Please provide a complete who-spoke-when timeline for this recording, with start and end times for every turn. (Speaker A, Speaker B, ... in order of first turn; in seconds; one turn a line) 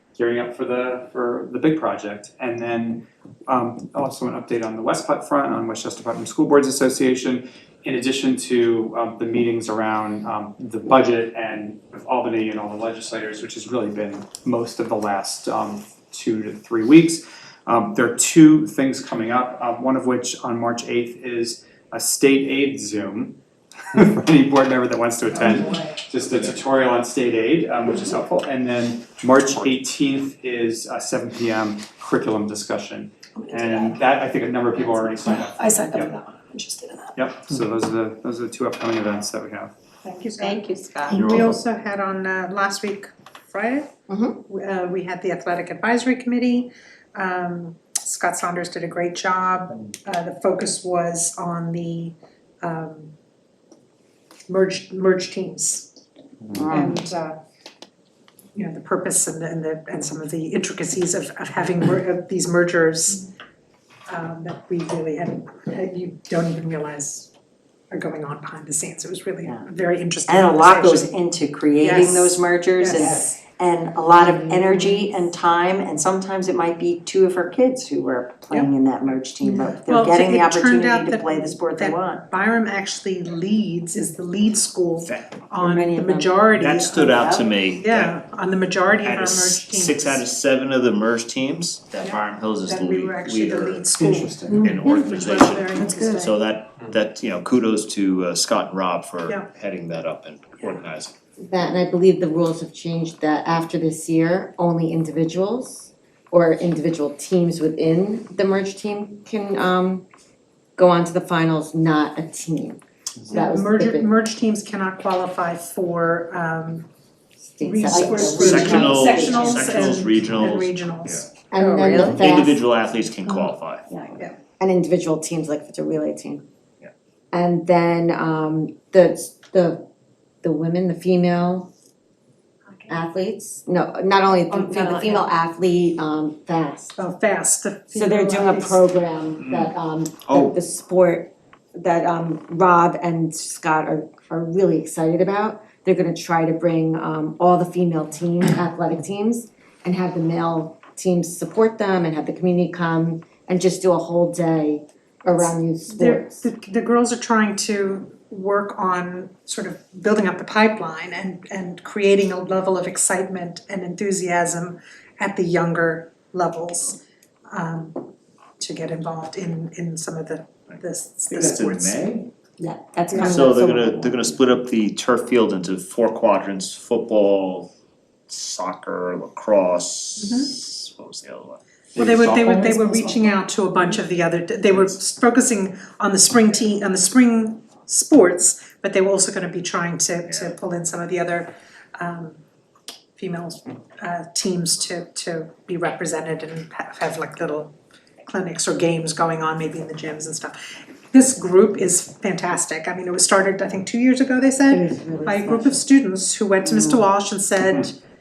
Speaker A: 0.1-23.4
Speaker A: 23.9-36.1
Speaker B: 25.4-25.9
Speaker C: 33.5-33.8
Speaker C: 35.2-37.1
Speaker A: 37.1-39.7
Speaker B: 40.0-40.6
Speaker C: 40.9-41.5
Speaker B: 41.2-43.9
Speaker D: 44.1-44.4
Speaker B: 44.4-53.1
Speaker B: 54.5-55.9
Speaker E: 56.5-57.0
Speaker B: 56.7-57.4
Speaker B: 58.5-63.3
Speaker B: 64.1-67.3
Speaker B: 67.9-71.1
Speaker E: 70.3-82.2
Speaker B: 71.8-73.4
Speaker D: 74.1-75.3
Speaker B: 79.4-90.2
Speaker F: 85.0-85.3
Speaker D: 85.6-86.2
Speaker F: 86.6-88.1
Speaker F: 89.0-93.9
Speaker B: 92.0-96.3
Speaker A: 94.0-94.7
Speaker F: 94.5-101.1
Speaker D: 101.4-110.0
Speaker D: 110.8-114.1
Speaker B: 113.3-116.9
Speaker D: 117.4-119.3
Speaker B: 117.6-121.3
Speaker E: 118.2-119.6
Speaker F: 118.3-121.3
Speaker D: 121.5-122.6
Speaker E: 121.6-122.2
Speaker F: 122.1-123.9
Speaker D: 124.6-126.4
Speaker D: 127.3-129.8
Speaker D: 130.4-131.7
Speaker D: 132.9-137.0
Speaker C: 134.5-135.1
Speaker B: 137.0-138.8
Speaker D: 137.9-156.5
Speaker B: 155.4-172.1
Speaker F: 171.3-172.3
Speaker D: 172.6-174.3
Speaker B: 173.1-173.4
Speaker F: 173.2-177.7
Speaker F: 178.3-181.6
Speaker B: 180.2-180.5
Speaker A: 181.9-182.7
Speaker B: 182.0-192.4
Speaker F: 190.3-190.5
Speaker B: 193.2-197.7
Speaker B: 198.2-200.6
Speaker B: 201.1-207.9
Speaker D: 204.7-205.8